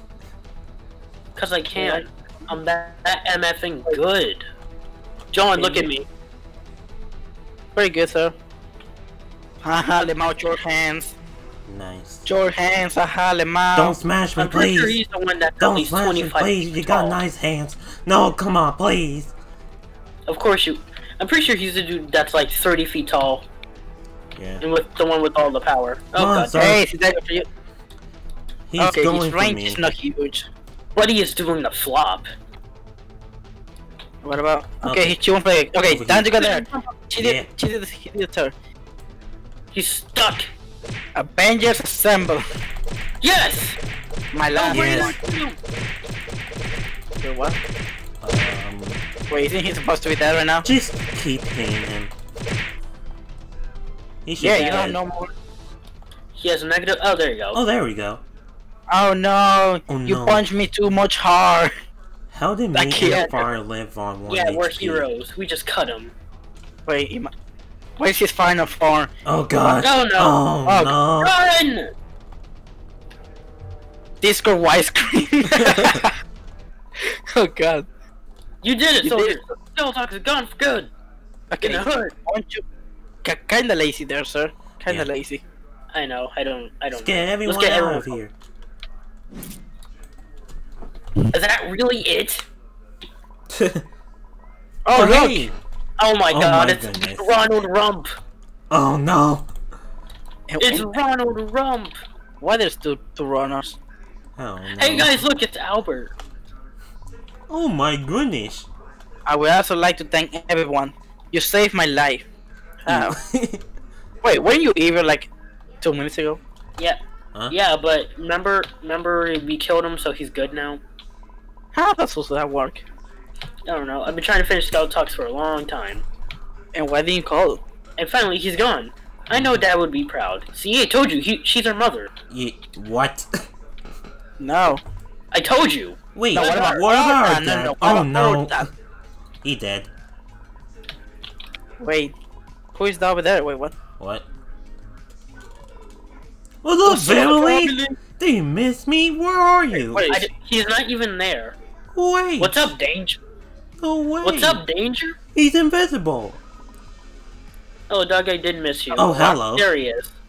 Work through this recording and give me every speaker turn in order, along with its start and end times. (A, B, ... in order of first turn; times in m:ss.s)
0:01.4-0:04.4 A
0:01.8-0:02.0 B
0:05.3-0:06.0 A
0:05.6-0:05.9 B
0:07.7-0:08.3 B
0:09.6-0:11.2 B
0:11.7-0:12.2 C
0:12.2-0:14.0 B
0:13.7-0:15.0 C
0:14.4-0:17.2 A
0:15.6-0:19.3 C
0:20.3-0:23.4 A
0:24.4-0:24.6 C
0:24.6-0:26.6 A
0:26.2-0:26.8 C
0:26.5-0:27.5 B
0:28.7-0:29.9 C
0:28.8-0:30.5 B
0:31.0-0:32.3 A
0:34.2-0:38.5 B
0:34.8-0:35.1 C
0:35.8-0:36.3 C
0:36.4-0:36.9 A
0:37.2-0:37.5 C
0:39.7-0:40.5 A
0:41.1-0:42.4 B
0:43.2-0:43.8 A
0:44.3-0:45.2 B
0:44.5-0:45.6 A
0:44.7-0:45.2 C
0:47.2-0:47.6 B
0:48.2-0:49.0 C
0:49.3-0:50.6 B
0:50.6-0:52.1 C
0:54.2-0:55.0 C
0:54.4-0:55.3 B
0:54.5-0:54.9 A
0:56.4-0:57.6 A
0:57.5-0:58.2 C
0:58.9-1:01.7 B
0:59.9-1:00.4 C
1:02.3-1:05.0 C
1:02.7-1:03.4 B
1:03.0-1:03.3 A
1:04.3-1:06.1 A
1:06.9-1:07.3 B
1:08.0-1:09.1 B
1:09.2-1:11.4 C
1:09.8-1:10.4 A
1:10.6-1:10.9 B
1:11.2-1:11.9 A
1:14.2-1:16.1 B
1:17.0-1:17.8 B
1:18.6-1:20.9 A
1:19.0-1:19.4 B
1:21.5-1:22.6 B
1:21.6-1:22.1 A
1:23.2-1:25.4 B
1:25.9-1:28.2 A
1:26.9-1:28.3 C
1:31.3-1:32.4 A
1:33.5-1:33.8 C
1:34.8-1:35.5 B
1:34.9-1:35.5 C
1:36.0-1:38.1 A
1:36.3-1:37.3 C
1:38.7-1:39.5 C
1:40.5-1:40.9 B
1:40.6-1:42.0 A
1:42.4-1:43.8 B
1:44.4-1:45.2 C
1:44.8-1:46.1 A
1:47.5-1:48.7 C
1:49.3-1:52.3 B
1:52.8-1:53.2 B
1:52.9-1:53.6 C
1:54.2-1:55.3 B
1:55.8-1:56.4 B
1:57.5-2:00.8 A
2:01.7-2:02.8 B
2:03.7-2:06.0 A
2:06.7-2:07.6 B
2:08.0-2:12.1 A
2:09.3-2:09.6 C
2:12.3-2:13.4 C
2:14.4-2:14.8 B
2:15.3-2:16.8 A
2:16.1-2:18.7 C
2:16.3-2:18.7 B
2:19.4-2:19.9 C
2:21.8-2:22.1 B
2:22.8-2:23.7 B
2:24.0-2:24.2 C
2:26.6-2:30.0 C
2:26.8-2:28.0 B
2:29.7-2:30.3 B
2:30.1-2:31.6 A
2:32.0-2:32.7 C
2:32.4-2:33.2 A
2:33.8-2:34.6 C
2:34.2-2:35.2 A
2:35.3-2:36.4 C
2:37.9-2:40.1 A
2:39.0-2:39.7 C